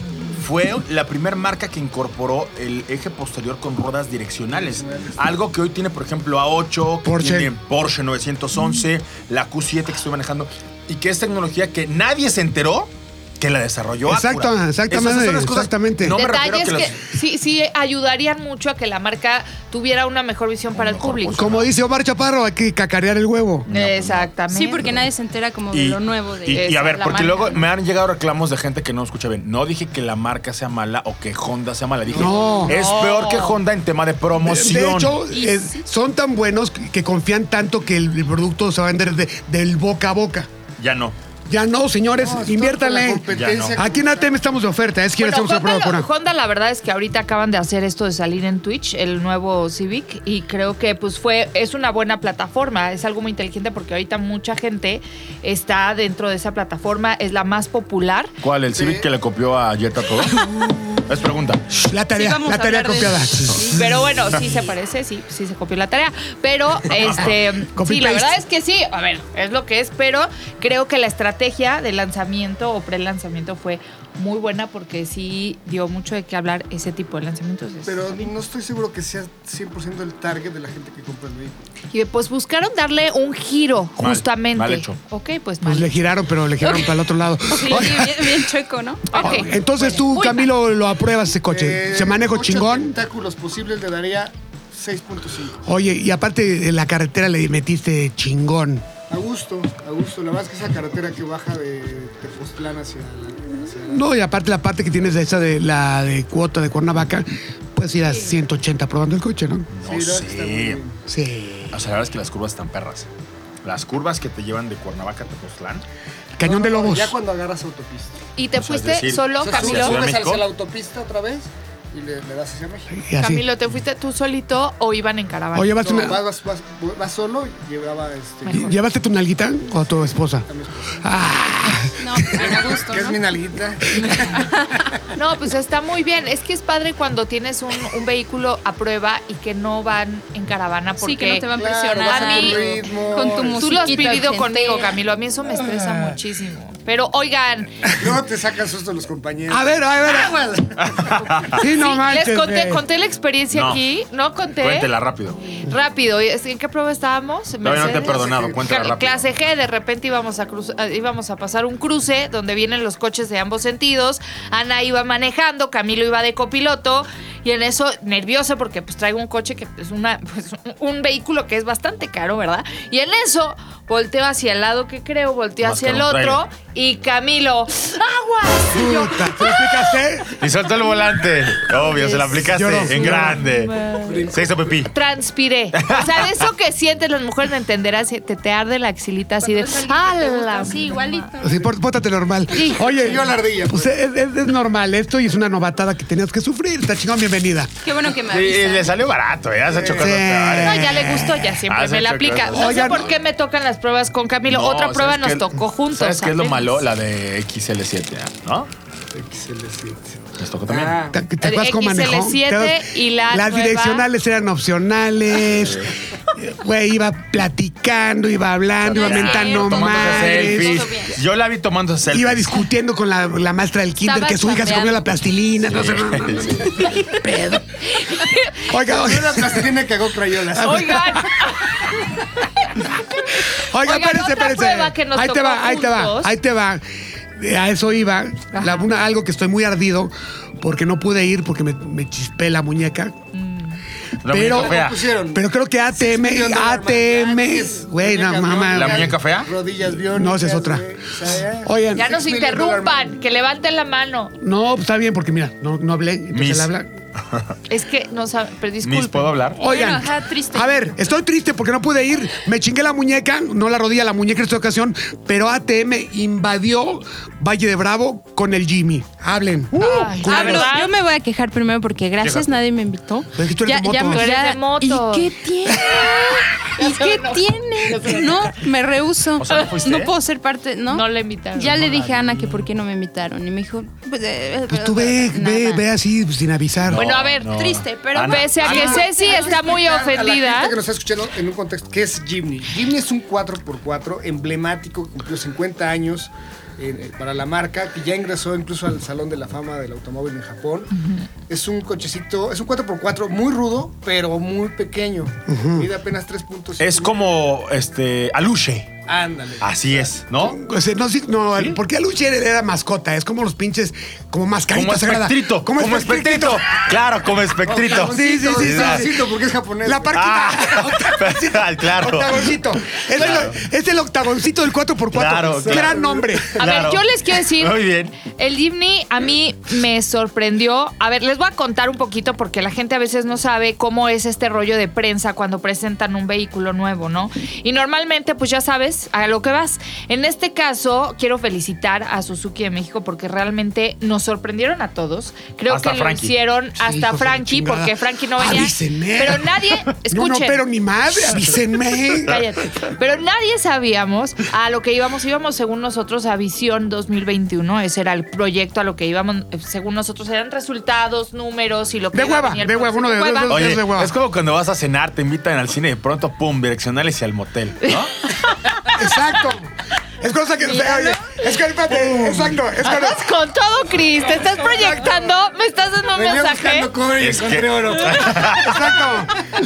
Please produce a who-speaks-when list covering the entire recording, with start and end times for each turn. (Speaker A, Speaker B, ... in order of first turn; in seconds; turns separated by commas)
Speaker A: 0.3-17.0, Speaker B: 4.5-5.4, Speaker C: 7.0-7.5, Speaker C: 14.1-16.2, Speaker D: 16.1-21.5, Speaker A: 20.7-21.7, Speaker C: 21.3-23.7, Speaker D: 23.7-24.9, Speaker A: 23.7-24.3, Speaker E: 24.5-27.6, Speaker A: 25.7-35.2, Speaker D: 26.5-27.6, Speaker B: 32.1-32.8, Speaker C: 32.2-32.7, Speaker D: 32.7-33.6, Speaker C: 34.4-40.5, Speaker E: 35.3-35.8, Speaker A: 40.8-41.1, Speaker C: 41.5-46.1, Speaker B: 42.2-44.4, Speaker A: 43.3-43.8, Speaker D: 45.2-58.3, Speaker A: 58.4-61.7, Speaker B: 58.7-59.1, Speaker C: 61.8-63.8, Speaker E: 62.1-63.9, Speaker D: 63.7-78.3, Speaker A: 66.9-67.3, Speaker C: 67.6-68.4, Speaker B: 77.8-81.6, Speaker D: 81.9-86.0, Speaker A: 84.0-85.0, Speaker C: 85.6-88.5, Speaker E: 87.5-89.5, Speaker D: 87.5-87.9, Speaker D: 89.1-90.5, Speaker C: 89.1-93.0, Speaker B: 91.5-95.6, Speaker C: 95.6-98.8, Speaker B: 99.1-104.1, Speaker C: 103.8-109.7, Speaker A: 109.7-110.8, Speaker B: 109.8-111.0, Speaker C: 111.1-111.8, Speaker A: 111.7-113.1, Speaker A: 113.6-115.8, Speaker C: 116.4-117.2, Speaker B: 116.4-118.2, Speaker D: 118.4-120.0, Speaker A: 118.6-120.5, Speaker B: 119.4-123.0, Speaker C: 122.9-123.5, Speaker D: 123.2-125.8, Speaker C: 125.5-126.2, Speaker B: 125.8-128.7, Speaker C: 128.5-130.5, Speaker B: 130.5-131.2, Speaker C: 131.0-132.7, Speaker E: 132.0-133.2, Speaker B: 132.3-134.5, Speaker E: 134.2-134.8, Speaker D: 135.1-141.5, Speaker E: 141.0-145.0, Speaker B: 141.5-144.1, Speaker D: 142.0-142.7, Speaker D: 143.6-147.8, Speaker B: 147.9-151.2, Speaker C: 149.5-150.5, Speaker A: 150.8-151.6, Speaker C: 151.5-152.8, Speaker D: 151.5-154.9, Speaker A: 153.5-153.8, Speaker A: 154.6-155.4, Speaker D: 155.5-180.0, Speaker A: 157.6-159.2, Speaker B: 158.1-158.6, Speaker A: 175.6-176.4, Speaker C: 178.7-180.3, Speaker A: 180.3-183.8, Speaker D: 181.8-182.4, Speaker C: 182.3-183.4, Speaker D: 183.1-184.3, Speaker B: 183.8-184.8, Speaker A: 184.3-184.9, Speaker D: 184.9-191.3, Speaker A: 185.7-186.4, Speaker E: 189.4-191.6, Speaker C: 191.4-197.7, Speaker D: 192.5-193.2, Speaker B: 192.7-193.9, Speaker E: 197.8-199.0, Speaker A: 198.2-201.0, Speaker B: 199.7-200.1, Speaker C: 199.9-201.6, Speaker D: 200.6-206.8, Speaker A: 201.7-202.9, Speaker C: 202.5-203.1, Speaker A: 204.5-208.7, Speaker B: 209.1-211.2, Speaker A: 210.4-211.0, Speaker C: 211.1-220.9, Speaker D: 211.4-214.1, Speaker A: 215.4-215.9, Speaker A: 218.9-222.5, Speaker E: 219.0-221.2, Speaker C: 222.1-227.7, Speaker D: 224.1-225.0, Speaker A: 225.7-226.6, Speaker D: 227.8-228.7, Speaker C: 228.7-229.7, Speaker B: 228.8-231.2, Speaker C: 230.5-231.3, Speaker D: 230.6-232.5, Speaker D: 233.2-236.3, Speaker C: 233.4-236.8, Speaker C: 237.3-243.2, Speaker D: 238.5-238.9, Speaker D: 243.3-243.8, Speaker A: 244.2-245.1, Speaker C: 244.3-249.1, Speaker B: 244.4-245.4, Speaker B: 245.9-253.2, Speaker A: 248.7-249.5, Speaker C: 250.1-250.8, Speaker C: 251.6-252.2, Speaker D: 251.9-254.3, Speaker C: 254.4-256.9, Speaker A: 256.3-256.7, Speaker A: 257.3-257.5, Speaker D: 257.7-259.4, Speaker A: 258.8-259.6, Speaker E: 259.6-260.9, Speaker C: 259.6-270.7, Speaker D: 269.8-270.9, Speaker E: 270.2-285.8, Speaker A: 272.2-272.5, Speaker C: 273.4-274.3, Speaker D: 274.1-275.4, Speaker D: 275.9-278.6, Speaker A: 279.4-280.1, Speaker D: 280.9-281.8, Speaker A: 281.6-282.6, Speaker C: 284.7-287.0, Speaker A: 286.9-289.0, Speaker D: 286.9-287.5, Speaker E: 287.4-289.7, Speaker D: 288.2-290.8, Speaker B: 288.6-300.9, Speaker D: 300.9-301.3, Speaker B: 301.5-307.2, Speaker C: 305.5-305.9, Speaker A: 306.8-308.9, Speaker B: 309.1-310.1, Speaker A: 309.6-310.6, Speaker C: 310.4-316.7, Speaker A: 314.7-319.1, Speaker B: 317.6-320.2, Speaker C: 317.9-319.2, Speaker C: 319.8-326.6, Speaker A: 320.1-323.6, Speaker A: 325.1-328.2, Speaker B: 325.6-326.3, Speaker D: 326.6-350.6, Speaker A: 345.7-346.3, Speaker C: 346.8-352.4, Speaker D: 352.1-363.6, Speaker C: 362.1-364.1, Speaker A: 363.5-368.1, Speaker D: 367.9-369.0, Speaker C: 368.9-373.2, Speaker B: 371.9-372.6, Speaker D: 372.8-376.9, Speaker B: 376.2-378.6, Speaker A: 377.2-378.9, Speaker C: 378.6-379.4